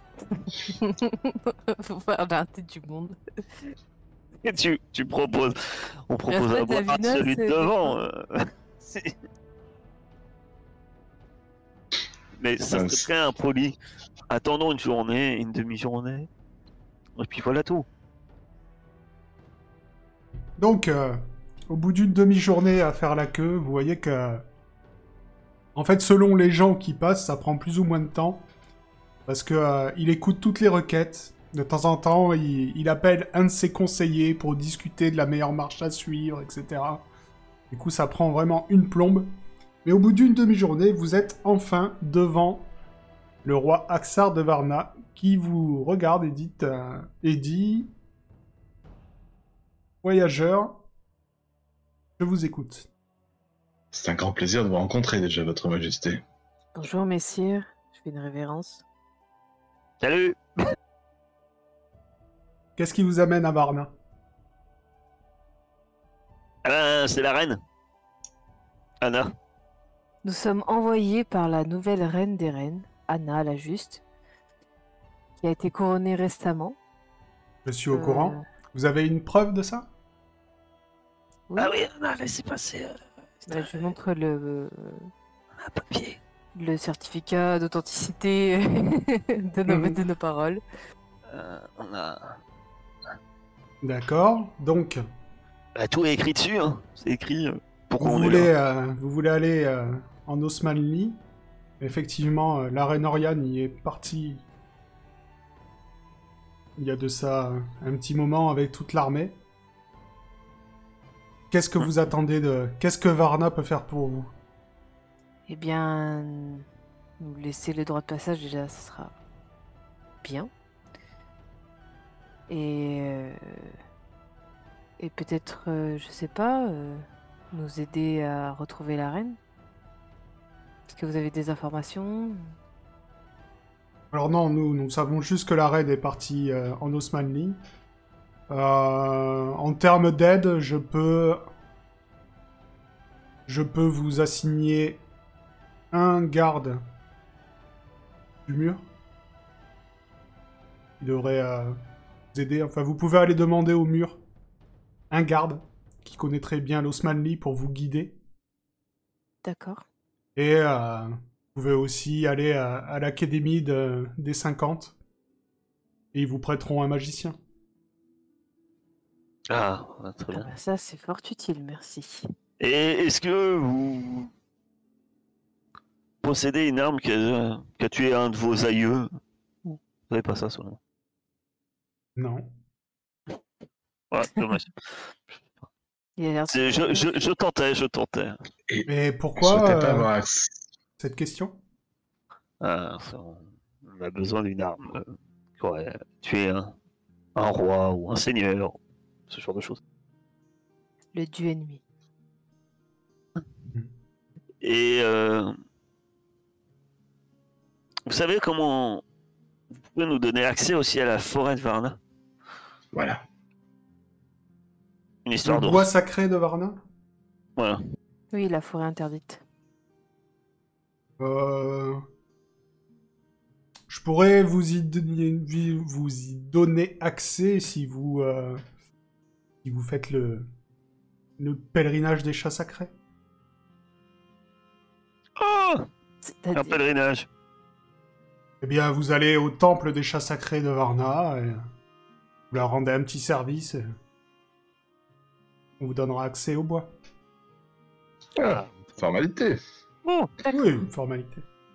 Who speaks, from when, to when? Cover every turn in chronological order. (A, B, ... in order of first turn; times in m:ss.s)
0:00.3-0:03.2 A
0:04.4-0:09.1 B
0:06.3-0:08.0 A
0:12.4-0:13.8 B
0:12.7-0:13.0 C
0:14.3-0:16.3 B
0:17.2-0:17.9 B
0:20.6-0:24.4 D
0:25.7-0:28.4 D
0:29.3-0:37.0 D
0:37.7-0:39.3 D
0:39.8-0:42.7 D
0:43.4-0:47.9 D
0:50.0-0:50.8 D
0:52.2-0:52.9 D
0:53.9-0:56.2 C
0:56.7-0:58.8 A
1:00.0-1:00.6 B
1:02.8-1:03.9 D
1:06.6-1:07.6 B
1:09.0-1:09.3 B
1:10.2-1:14.0 A
1:15.4-1:16.8 A
1:17.6-1:19.9 D
1:17.9-1:18.4 A
1:21.6-1:23.9 B
1:23.5-1:25.1 A
1:25.6-1:26.2 B
1:26.5-1:30.6 A
1:29.7-1:30.0 D
1:31.3-1:32.4 B
1:33.8-1:35.0 D
1:35.8-1:38.5 B
1:38.0-1:41.2 D
1:41.8-1:44.4 D
1:46.8-1:49.4 D
1:51.5-1:54.3 D
1:55.5-1:56.6 A
1:57.2-1:59.1 A
2:00.2-2:00.5 A
2:02.5-2:03.8 A
2:05.0-2:09.4 A
2:10.9-2:12.5 A
2:14.1-2:17.6 D
2:18.5-2:21.4 D
2:23.5-2:25.0 D
2:25.9-2:26.8 D
2:28.4-2:28.8 D
2:31.0-2:31.8 D
2:32.3-2:34.2 D
2:35.1-2:38.2 D
2:39.4-2:39.8 A
2:40.4-2:45.0 D
2:46.1-2:47.4 D
2:49.5-2:50.5 B
2:50.3-2:52.3 A
2:52.6-2:54.3 B
2:56.2-2:59.1 B
2:59.6-3:00.8 B
3:02.2-3:02.5 D
3:04.1-3:04.7 B
3:06.2-3:07.2 A
3:06.5-3:08.4 B
3:08.7-3:10.5 C
3:08.9-3:10.1 D
3:11.0-3:11.6 D
3:12.6-3:16.7 B
3:17.3-3:18.8 B
3:19.3-3:19.8 B
3:21.1-3:21.8 A
3:24.6-3:25.6 B
3:28.0-3:29.0 B
3:29.8-3:32.0 B
3:32.9-3:33.2 C
3:35.2-3:35.9 B
3:35.4-3:36.8 D
3:38.3-3:39.4 A
3:41.2-3:42.0 D
3:43.9-3:48.6 D
3:49.6-3:50.5 D
3:51.4-3:52.9 D
3:55.4-3:55.9 B
3:56.2-3:56.8 A
3:56.5-3:57.3 B
3:58.6-4:01.6 D
4:02.5-4:03.8 D
4:05.8-4:06.9 D
4:08.4-4:08.7 B
4:08.4-4:09.6 C
4:10.0-4:10.3 B
4:10.5-4:11.4 D